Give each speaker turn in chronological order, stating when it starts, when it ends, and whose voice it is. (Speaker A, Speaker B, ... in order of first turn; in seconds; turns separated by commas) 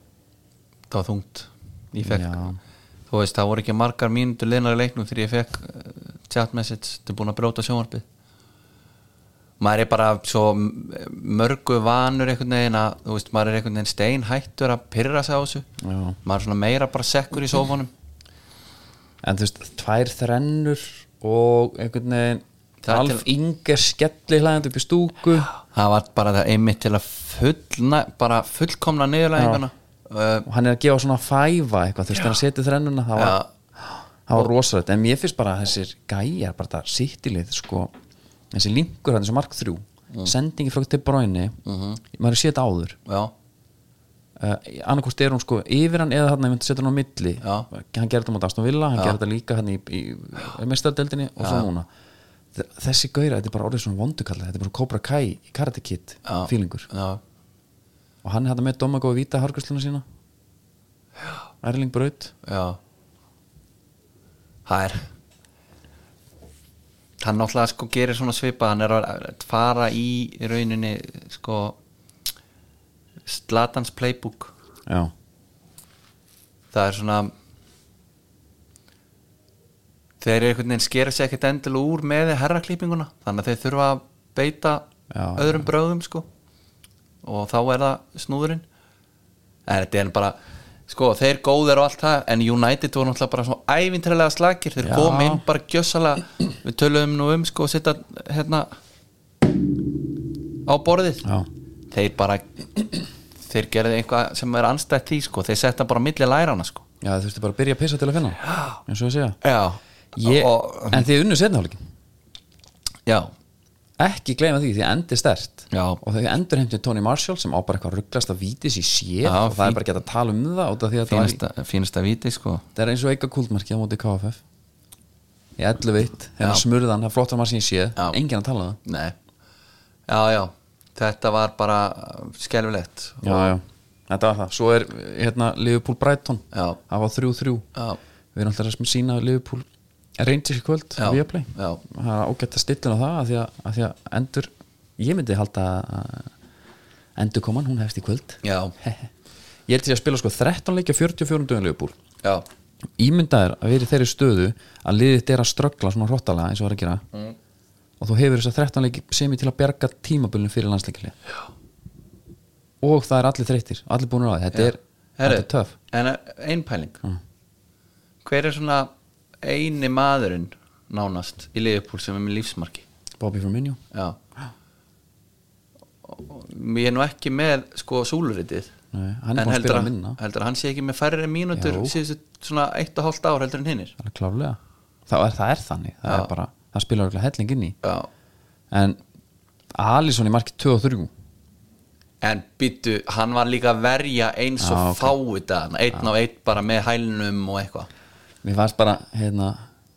Speaker A: 0.9-2.4, Speaker B: 1.9-2.6, Speaker A: 3.1-8.0, Speaker A: 9.6-15.7, Speaker B: 15.8-16.2, Speaker A: 16.2-17.9, Speaker B: 19.2-25.5, Speaker A: 22.8-23.3, Speaker A: 25.5-30.5, Speaker B: 29.4-29.6, Speaker B: 30.5-37.9, Speaker A: 33.1-33.5, Speaker B: 38.5-41.6, Speaker A: 41.6-42.0, Speaker B: 42.1-43.0, Speaker A: 43.0-43.3, Speaker B: 44.4-51.9, Speaker A: 47.4-47.7, Speaker A: 51.4-51.7, Speaker B: 52.5-56.9, Speaker A: 56.2-57.2, Speaker B: 58.2-60.0, Speaker B: 61.6-62.3, Speaker A: 62.4-62.8, Speaker A: 64.7-65.0, Speaker A: 67.2-71.8, Speaker A: 73.2-74.5, Speaker B: 74.9-75.1, Speaker A: 76.7-77.3, Speaker A: 80.2-86.3, Speaker B: 85.1-85.7, Speaker A: 87.2-88.6, Speaker A: 89.7-90.4, Speaker A: 90.9-98.7, Speaker B: 94.8-95.4, Speaker A: 100.7-101.2, Speaker A: 101.9-102.5, Speaker A: 103.5-106.8, Speaker B: 107.0-109.4, Speaker A: 108.5-108.8, Speaker A: 109.4-111.0, Speaker B: 110.2-111.8, Speaker A: 113.0-113.3, Speaker B: 114.0-121.4, Speaker A: 115.7-116.0, Speaker A: 119.2-119.8, Speaker A: 121.0-122.6, Speaker B: 122.8-124.4, Speaker B: 125.6-128.8, Speaker A: 128.8-129.1, Speaker A: 130.1-133.5, Speaker B: 133.2-137.7, Speaker A: 136.5-136.8, Speaker B: 138.3-139.7, Speaker B: 140.2-146.3, Speaker A: 141.0-141.8, Speaker B: 147.2-149.1, Speaker A: 148.4-148.7, Speaker B: 149.7-151.9, Speaker B: 153.0-157.0, Speaker B: 158.0-161.1, Speaker B: 162.8-165.7, Speaker A: 164.5-167.0, Speaker A: 168.2-168.9, Speaker A: 169.4-172.8, Speaker B: 173.2-173.8, Speaker A: 173.9-174.2, Speaker A: 176.0-178.7, Speaker B: 178.9-180.2, Speaker A: 179.3-183.9, Speaker B: 181.5-181.9, Speaker B: 184.0-187.8, Speaker A: 187.8-188.1, Speaker B: 188.7-189.0, Speaker B: 189.7-191.1, Speaker A: 192.2-197.9, Speaker B: 194.6-195.1, Speaker B: 198.4-199.6